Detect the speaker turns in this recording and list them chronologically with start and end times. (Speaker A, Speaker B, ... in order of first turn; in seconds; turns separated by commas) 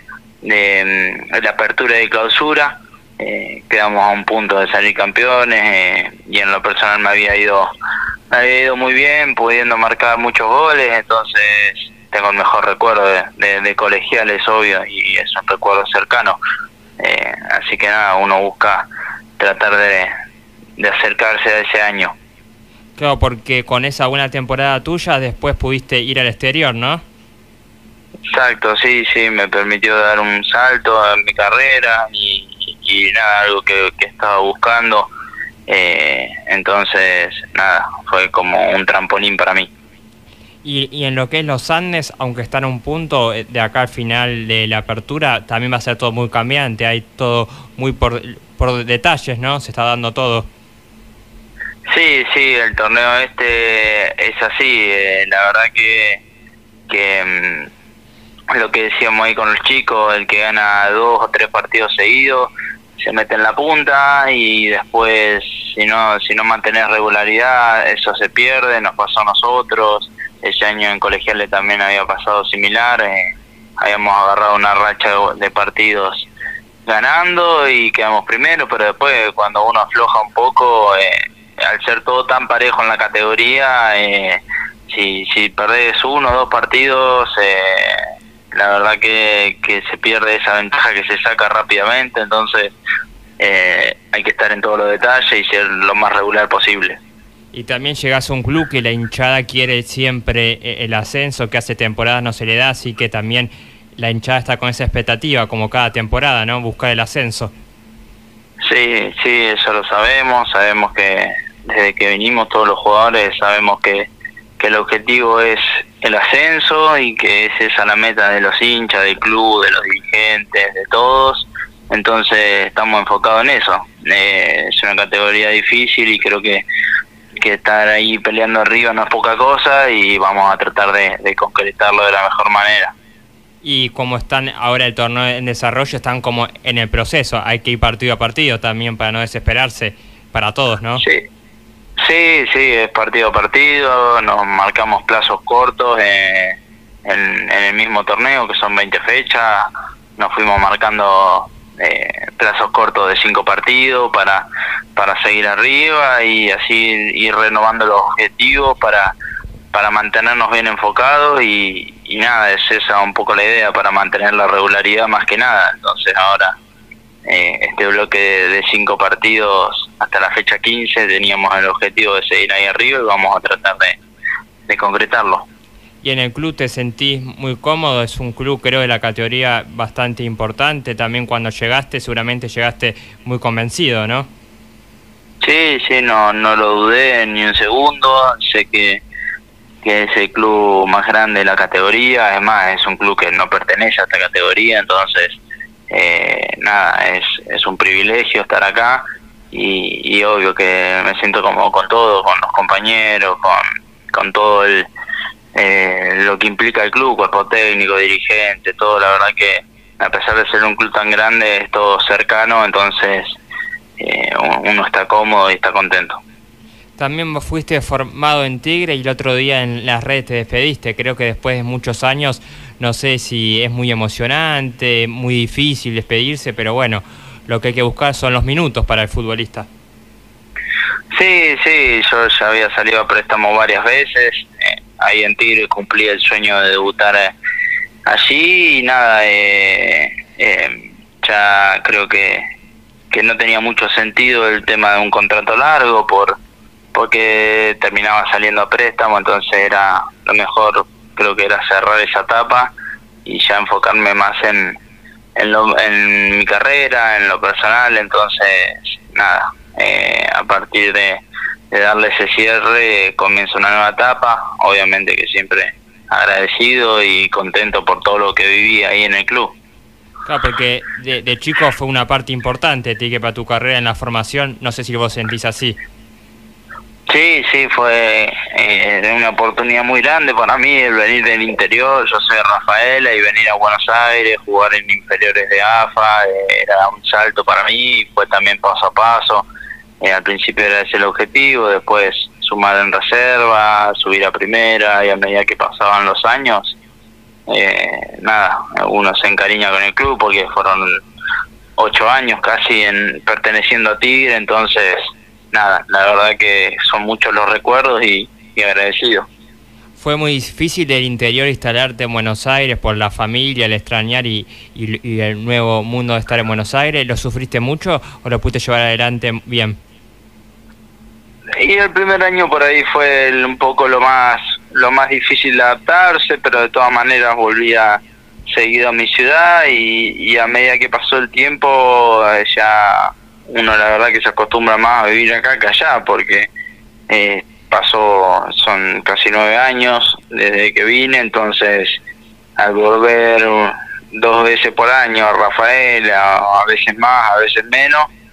Speaker A: 0.4-7.7, Speaker A: 8.3-16.4, Speaker A: 17.0-18.9, Speaker A: 19.4-20.1, Speaker A: 20.8-22.1, Speaker B: 23.0-27.0, Speaker A: 28.3-35.1, Speaker A: 35.7-39.7, Speaker B: 40.6-50.5, Speaker A: 51.9-56.2, Speaker A: 56.9-57.7, Speaker A: 58.5-76.3, Speaker A: 76.9-92.7, Speaker A: 93.4-97.0, Speaker B: 97.5-107.5, Speaker A: 108.7-126.7, Speaker A: 127.4-132.9, Speaker B: 133.6-141.0, Speaker A: 141.0-141.2, Speaker A: 142.0-159.2, Speaker A: 159.7-166.6, Speaker A: 167.3-174.0, Speaker A: 174.7-175.5, Speaker B: 176.0-184.3, Speaker A: 185.4-189.0, Speaker A: 189.8-204.9, Speaker A: 205.6-213.4, Speaker A: 214.0-216.2, Speaker B: 217.0-229.7, Speaker A: 231.1-237.4, Speaker A: 238.1-242.4, Speaker A: 243.1-246.4, Speaker A: 246.9-252.7, Speaker A: 253.2-254.8, Speaker A: 255.4-269.6, Speaker B: 270.3-275.8, Speaker A: 277.1-289.5, Speaker A: 290.0-296.8, Speaker A: 297.5-300.9, Speaker A: 301.8-309.3, Speaker B: 310.0-319.8, Speaker A: 321.6-336.5, Speaker A: 337.1-342.0, Speaker A: 342.6-348.1